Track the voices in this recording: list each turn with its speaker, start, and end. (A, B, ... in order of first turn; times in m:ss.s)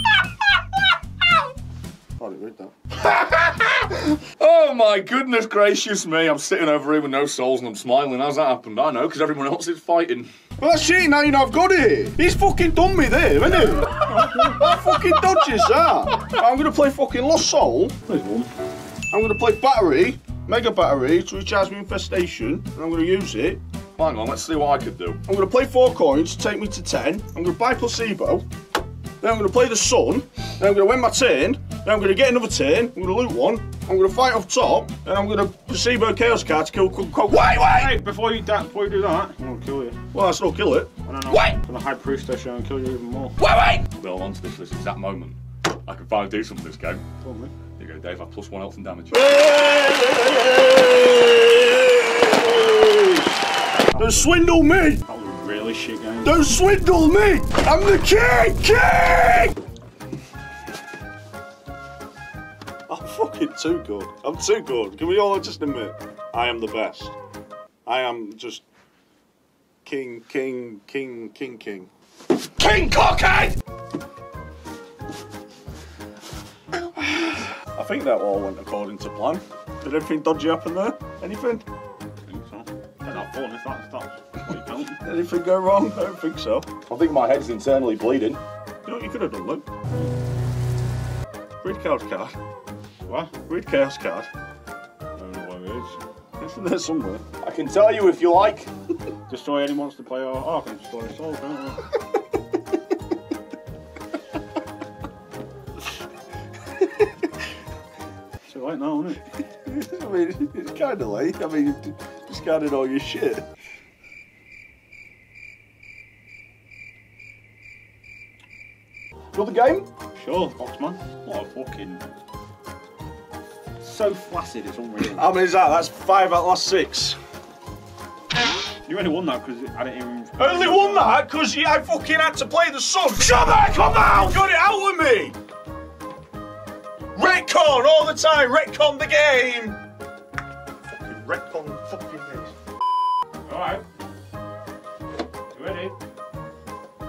0:02.2-0:02.7 A
0:03.0-0:10.3 B
0:10.6-0:18.0 A
0:18.1-0:18.5 C
0:19.1-0:23.6 A
0:24.0-0:25.2 B
0:25.3-0:28.5 A
0:29.2-0:37.5 A
0:37.3-0:37.9 B
0:37.7-0:40.0 C
0:40.1-0:40.9 A
0:41.1-0:43.4 C
0:41.3-0:41.6 B
0:43.4-0:47.0 B
0:47.2-0:47.5 A
0:47.8-0:49.2 B
0:49.1-0:53.3 A
0:53.9-0:54.3 C
0:53.9-0:55.0 A
0:55.1-0:56.4 C
0:56.2-0:59.6 A
1:02.9-1:07.2 A
1:07.9-1:08.6 A
1:09.8-1:11.9 A
1:12.6-1:13.6 B
1:17.0-1:21.7 A
1:22.3-1:25.0 C
1:25.0-1:26.7 A
1:26.9-1:28.4 B
1:28.8-1:29.7 A
1:31.6-1:32.4 A
1:33.1-1:33.3 C
1:33.5-1:34.3 A
1:35.2-1:36.0 C
1:36.4-1:37.2 A
1:37.4-1:38.7 B
1:39.3-1:41.8 C
1:48.5-1:49.2 C
1:49.6-1:53.4 A
1:59.4-1:59.9 B
2:00.2-2:02.1 C
2:03.8-2:05.3 C
2:05.0-2:07.2 A
2:08.9-2:11.2 C
2:10.4-2:15.4 A
2:17.1-2:19.8 A
2:21.0-2:22.5 A
2:23.5-2:23.8 C
2:25.5-2:26.0 C